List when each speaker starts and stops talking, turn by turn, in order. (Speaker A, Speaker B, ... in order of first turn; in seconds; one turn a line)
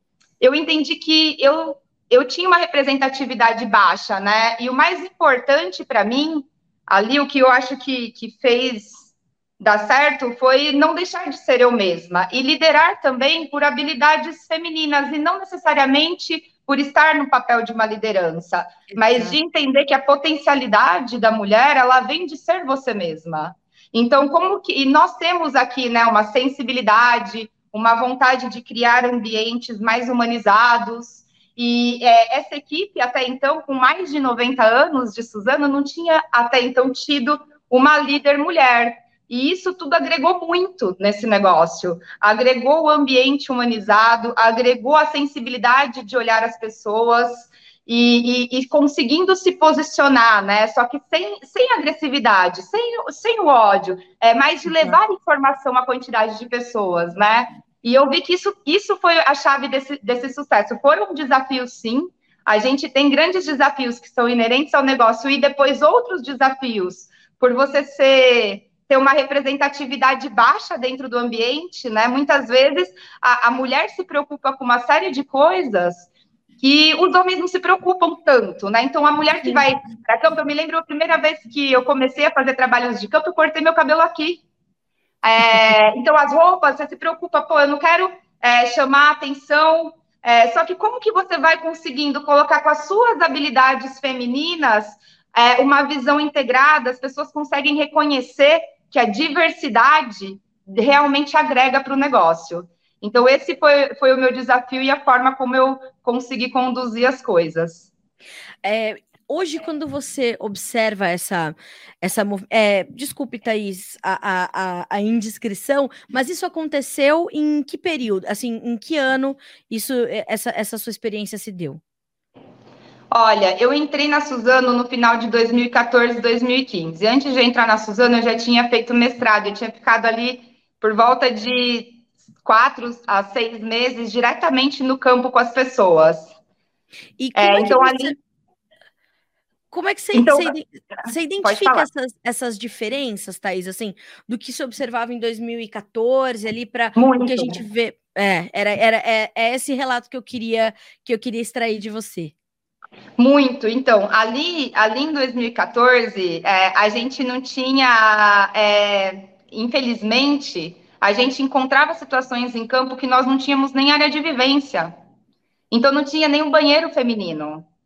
Speaker A: 0.4-76.1
Speaker B: 18.9-19.4
Speaker B: 54.7-55.0
Speaker A: 76.6-84.4
Speaker B: 79.4-79.7
Speaker A: 85.2-107.9
Speaker B: 108.6-121.8
Speaker A: 123.1-136.3
Speaker B: 137.2-138.1
Speaker A: 137.3-138.1
Speaker B: 139.7-152.3
Speaker A: 140.1-140.5
Speaker A: 141.0-141.9
Speaker A: 146.9-147.6
Speaker A: 153.2-164.9
Speaker A: 165.7-167.7